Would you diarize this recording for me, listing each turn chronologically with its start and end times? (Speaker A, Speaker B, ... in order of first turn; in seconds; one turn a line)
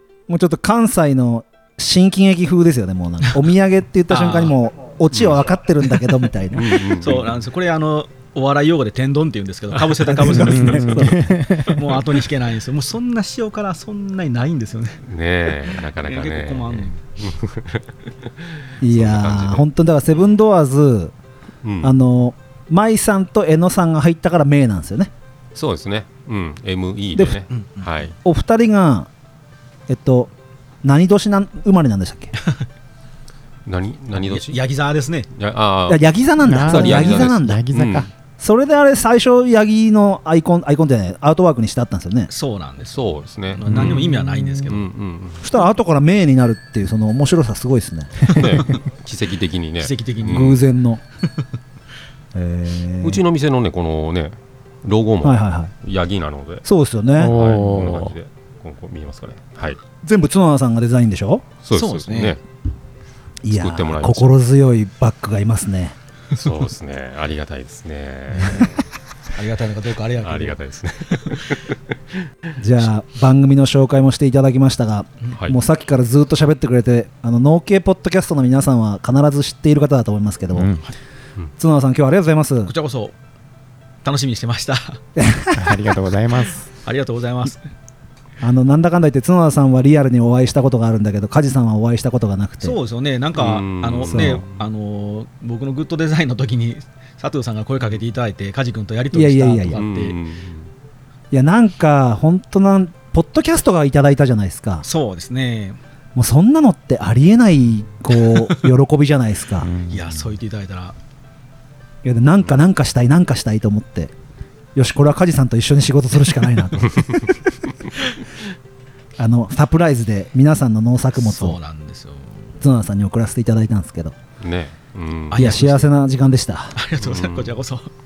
Speaker A: 0.3-6.6
Speaker B: 4.1-4.5
Speaker C: 5.1-5.4
Speaker C: 6.5-7.4
Speaker B: 6.6-15.0
Speaker A: 10.1-11.2
Speaker D: 10.3-12.0
Speaker C: 15.1-17.9
Speaker B: 15.7-17.0
Speaker C: 18.6-19.7
Speaker A: 18.8-21.1
Speaker C: 21.6-21.9
Speaker A: 21.8-25.1
Speaker C: 25.6-28.1
Speaker B: 27.5-28.1
Speaker A: 28.2-29.1
Speaker A: 29.9-30.3
Speaker A: 30.8-32.3
Speaker C: 33.7-34.6
Speaker B: 34.2-35.3
Speaker C: 35.3-38.1
Speaker A: 35.9-37.6
Speaker D: 36.4-38.1
Speaker A: 38.4-42.3
Speaker B: 42.3-44.9
Speaker C: 42.9-45.4
Speaker D: 43.7-44.7
Speaker A: 45.4-48.3
Speaker C: 48.3-50.6
Speaker B: 49.8-50.6
Speaker A: 50.3-51.0
Speaker A: 52.3-53.2
Speaker C: 53.0-56.6
Speaker A: 55.2-55.7
Speaker A: 56.6-57.4
Speaker D: 57.2-58.2
Speaker C: 57.2-59.8
Speaker A: 60.0-61.5
Speaker C: 61.6-62.4
Speaker B: 61.7-62.4
Speaker A: 63.4-66.0
Speaker C: 63.5-64.4
Speaker C: 66.3-68.8
Speaker B: 69.3-70.6
Speaker C: 70.2-71.8
Speaker A: 72.6-80.7
Speaker D: 80.5-80.9
Speaker A: 81.6-82.7
Speaker B: 82.7-83.2
Speaker B: 84.0-85.0
Speaker A: 85.2-85.8
Speaker D: 85.5-86.7
Speaker B: 86.8-87.6
Speaker A: 88.4-92.8
Speaker B: 92.6-100.2
Speaker C: 93.4-94.6
Speaker D: 94.1-94.4
Speaker A: 99.1-99.8
Speaker C: 99.7-100.7
Speaker A: 101.3-104.9
Speaker B: 104.8-105.8
Speaker A: 106.2-109.7
Speaker B: 108.2-108.7
Speaker D: 109.6-110.4
Speaker B: 109.9-111.0
Speaker A: 112.0-114.1
Speaker A: 114.8-117.0
Speaker C: 116.9-117.3
Speaker A: 119.2-121.6
Speaker B: 121.2-122.6
Speaker A: 122.6-124.2
Speaker C: 124.4-125.6
Speaker B: 125.3-125.9
Speaker A: 125.3-126.8
Speaker B: 126.8-127.9
Speaker C: 127.0-127.6